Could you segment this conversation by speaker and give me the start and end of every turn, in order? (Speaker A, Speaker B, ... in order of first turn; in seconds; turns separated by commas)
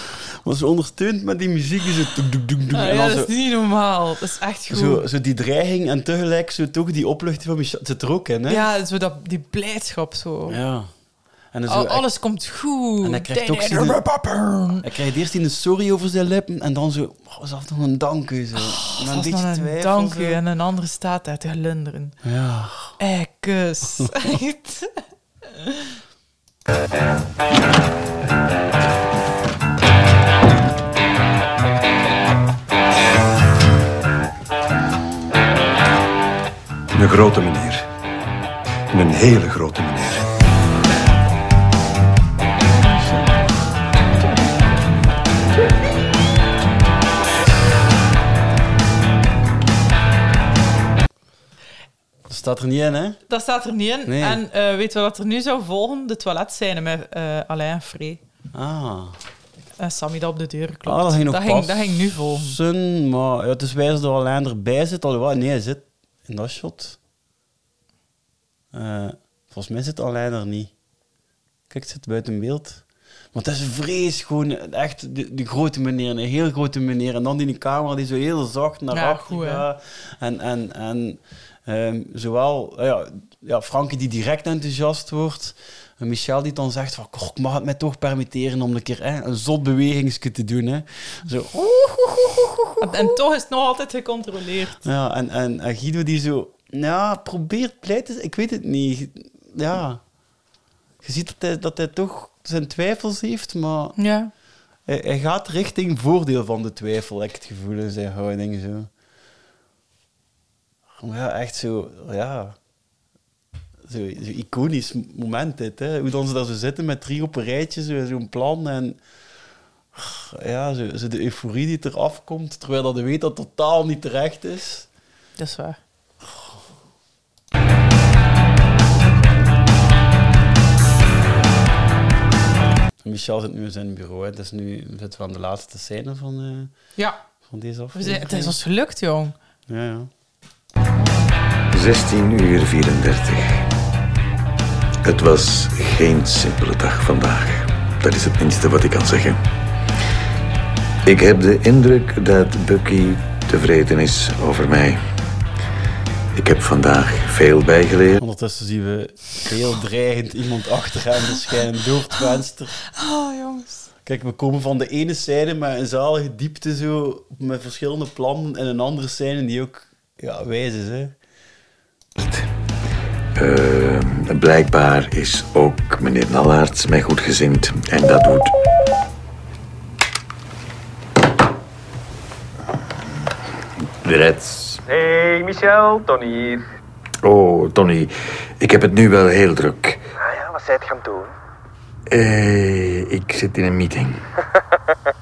Speaker A: 0.4-3.3, Speaker B: 2.7-5.0, Speaker A: 4.7-8.6, Speaker B: 8.5-10.6, Speaker A: 10.5-10.9, Speaker A: 11.5-12.1, Speaker B: 11.7-14.8, Speaker A: 13.0-14.0, Speaker A: 14.8-20.4, Speaker B: 18.6-22.2, Speaker A: 22.2-22.9, Speaker B: 23.0-25.0, Speaker C: 36.9-37.8, Speaker C: 38.9-40.2, Speaker A: 52.3-53.2, Speaker B: 53.3-58.2, Speaker A: 54.1-54.4, Speaker A: 58.5-59.1, Speaker B: 59.8-62.6, Speaker A: 60.9-67.0, Speaker A: 68.7-70.7, Speaker A: 71.7-93.0, Speaker B: 78.9-79.6, Speaker B: 92.8-94.8, Speaker A: 94.8-100.0, Speaker A: 101.0-104.0, Speaker B: 104.0-104.3, Speaker A: 104.9-108.9, Speaker A: 111.0-112.5, Speaker A: 113.8-119.0, Speaker A: 119.9-124.9, Speaker B: 125.4-125.8, Speaker A: 133.0-136.7, Speaker A: 137.5-138.6, Speaker B: 137.9-139.3, Speaker A: 139.7-140.1, Speaker D: 141.7-143.6, Speaker D: 145.0-149.4, Speaker D: 151.0-155.0, Speaker D: 156.3-158.2, Speaker A: 158.2-162.8, Speaker B: 162.9-163.9, Speaker A: 164.0-171.2, Speaker D: 172.2-172.4, Speaker D: 173.3-178.5, Speaker D: 184.0-184.8, Speaker E: 184.8-186.6, Speaker D: 187.2-190.0, Speaker E: 190.2-191.3, Speaker D: 192.1-194.2